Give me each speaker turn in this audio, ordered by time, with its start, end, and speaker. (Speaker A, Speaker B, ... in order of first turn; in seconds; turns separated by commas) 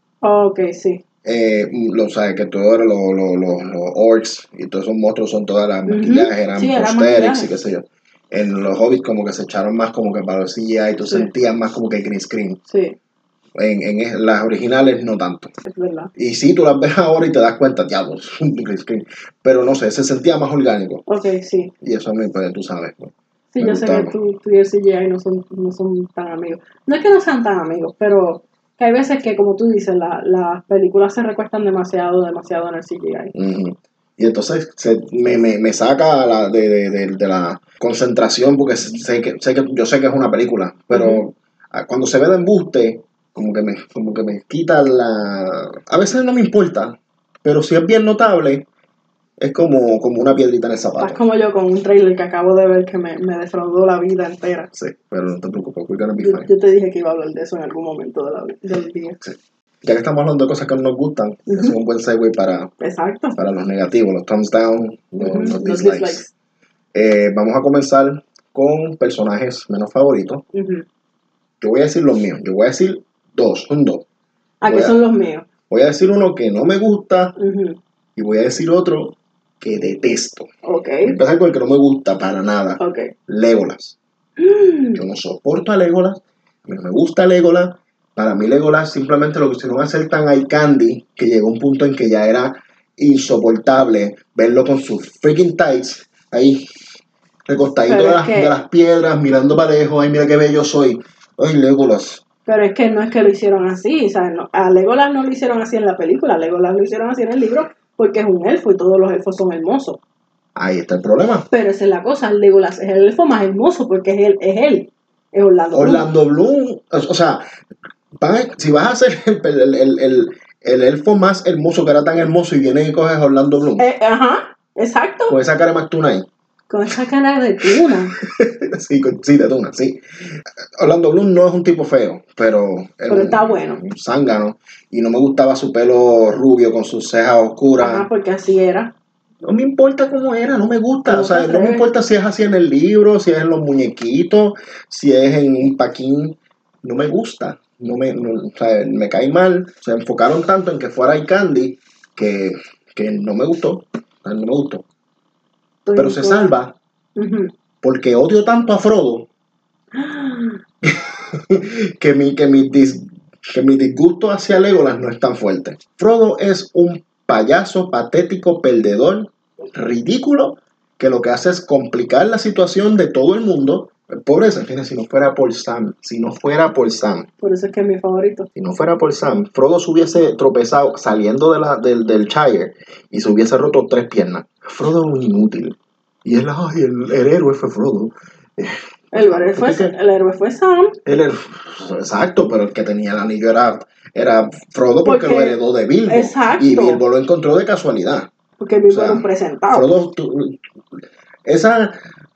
Speaker A: 0.2-1.0, Speaker B: 1.2-12.6, Speaker A: 5.9-7.5, Speaker A: 12.7-13.0, Speaker B: 13.6-15.5, Speaker A: 15.7-16.1, Speaker B: 16.2-21.0, Speaker A: 21.1-21.7, Speaker B: 21.8-24.1, Speaker A: 23.5-33.3, Speaker B: 33.3-48.7, Speaker A: 40.9-41.2, Speaker B: 49.4-51.2, Speaker A: 51.0-54.7, Speaker B: 54.7-56.5, Speaker A: 56.2-59.2, Speaker B: 59.2-62.7, Speaker A: 61.5-61.8, Speaker A: 62.8-63.4, Speaker B: 63.4-66.2, Speaker A: 65.2-66.3, Speaker B: 66.9-70.4, Speaker A: 70.5-70.8, Speaker B: 71.6-74.1, Speaker A: 74.6-75.5, Speaker B: 74.7-75.0, Speaker B: 75.7-77.4, Speaker A: 77.4-77.8, Speaker B: 78.2-80.5, Speaker A: 80.7-81.2, Speaker B: 81.0-84.0, Speaker A: 82.8-83.1, Speaker A: 84.4-85.0, Speaker B: 85.0-96.7, Speaker B: 97.5-102.2, Speaker A: 97.9-98.5, Speaker A: 102.5-110.0, Speaker B: 110.5-111.5, Speaker A: 111.5-116.1, Speaker B: 115.7-117.4, Speaker B: 118.1-123.8, Speaker A: 123.8-125.3, Speaker B: 125.3-126.3, Speaker A: 126.7-128.1, Speaker B: 127.6-138.1, Speaker A: 133.1-133.8, Speaker A: 137.8-138.9, Speaker B: 139.4-154.8, Speaker A: 141.1-141.9, Speaker A: 155.8-156.5, Speaker B: 155.9-156.8, Speaker A: 157.2-157.5, Speaker B: 157.8-159.3, Speaker A: 159.9-160.6, Speaker B: 160.8-177.3, Speaker A: 177.4-178.5, Speaker B: 178.6-189.9, Speaker A: 189.1-191.0, Speaker B: 191.1-198.3, Speaker A: 195.1-197.0, Speaker A: 198.6-199.9, Speaker B: 198.9-200.6, Speaker B: 201.5-202.0